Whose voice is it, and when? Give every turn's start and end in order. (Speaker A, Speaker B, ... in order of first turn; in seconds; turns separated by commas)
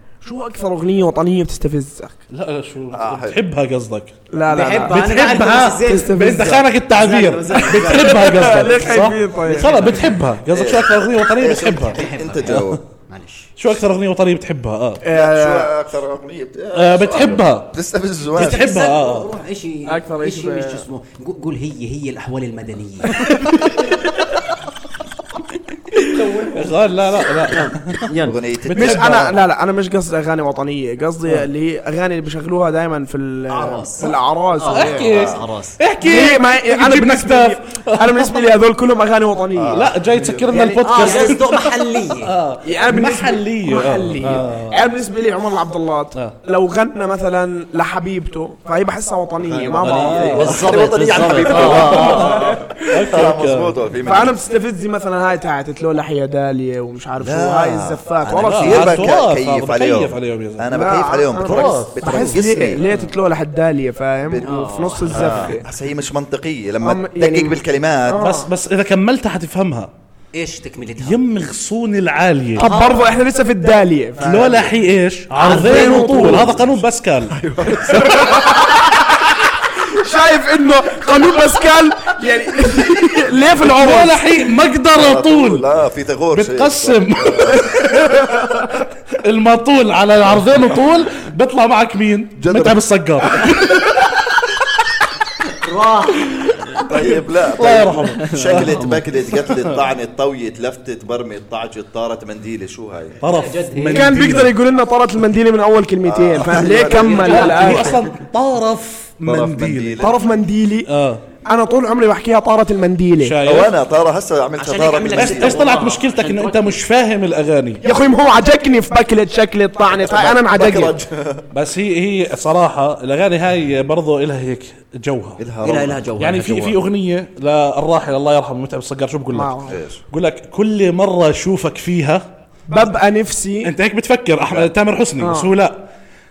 Speaker A: 0.2-2.1, Speaker B: 2.3-4.1, Speaker C: 2.9-3.4, Speaker A: 4.3-5.0, Speaker D: 4.5-6.3, Speaker B: 4.9-12.8, Speaker A: 5.8-6.7, Speaker D: 6.9-8.6, Speaker A: 7.7-10.1, Speaker C: 10.5-12.8, Speaker D: 11.9-13.5, Speaker B: 13.6-15.0, Speaker A: 15.0-15.7, Speaker C: 15.1-18.7, Speaker B: 16.7-17.7, Speaker B: 18.3-19.3, Speaker D: 18.4-23.4, Speaker A: 19.9-20.9, Speaker A: 23.2-23.6, Speaker B: 26.1-28.1, Speaker A: 26.1-26.8, Speaker D: 27.4-28.4, Speaker C: 28.2-29.3, Speaker B: 28.6-29.3, Speaker A: 28.7-35.1, Speaker D: 33.5-35.8, Speaker B: 34.6-38.5, Speaker C: 35.1-35.4, Speaker A: 36.0-39.9, Speaker C: 39.5-40.5, Speaker B: 39.7-44.8, Speaker A: 40.5-41.4, Speaker D: 40.8-42.3, Speaker A: 42.6-50.7, Speaker C: 49.4-52.5, Speaker B: 49.8-50.7, Speaker D: 50.3-52.4, Speaker A: 51.5-53.2, Speaker B: 51.5-53.8, Speaker C: 53.0-54.4, Speaker A: 54.0-59.1, Speaker C: 57.2-62.8, Speaker B: 58.4-60.7, Speaker A: 60.7-65.6, Speaker B: 61.4-63.1, Speaker D: 64.4-65.5, Speaker C: 65.1-68.2, Speaker A: 66.8-68.5, Speaker B: 68.2-69.9, Speaker D: 70.3-71.2, Speaker B: 71.0-72.7, Speaker A: 72.6-74.7, Speaker D: 72.6-73.0, Speaker C: 72.7-73.0, Speaker B: 74.2-77.4, Speaker D: 75.4-76.4, Speaker A: 75.4-76.5, Speaker C: 76.2-78.7, Speaker A: 77.7-84.2, Speaker B: 83.5-85.7, Speaker C: 84.9-87.7, Speaker B: 86.3-88.5, Speaker A: 87.7-88.7, Speaker B: 89.1-94.1, Speaker C: 92.4-92.8, Speaker D: 95.5-96.9, Speaker B: 96.8-98.8, Speaker C: 96.9-103.2, Speaker D: 98.1-99.0, Speaker B: 99.4-99.8, Speaker D: 103.2-104.2, Speaker B: 103.2-104.5, Speaker A: 103.9-108.0, Speaker C: 106.0-107.5, Speaker D: 106.6-108.1, Speaker B: 107.2-110.0, Speaker C: 109.2-110.2, Speaker A: 110.0-110.9, Speaker B: 110.9-111.2, Speaker A: 111.4-113.5, Speaker B: 113.2-113.7, Speaker C: 113.4-115.6, Speaker D: 114.6-116.8, Speaker B: 115.1-117.8, Speaker A: 117.8-121.0, Speaker C: 119.9-121.5, Speaker B: 121.5-125.4, Speaker C: 125.4-126.0, Speaker D: 125.6-126.8, Speaker B: 126.2-132.2, Speaker A: 129.3-129.8, Speaker C: 129.7-130.0, Speaker A: 132.7-133.7, Speaker B: 133.6-135.8, Speaker C: 134.4-134.7, Speaker A: 135.2-135.5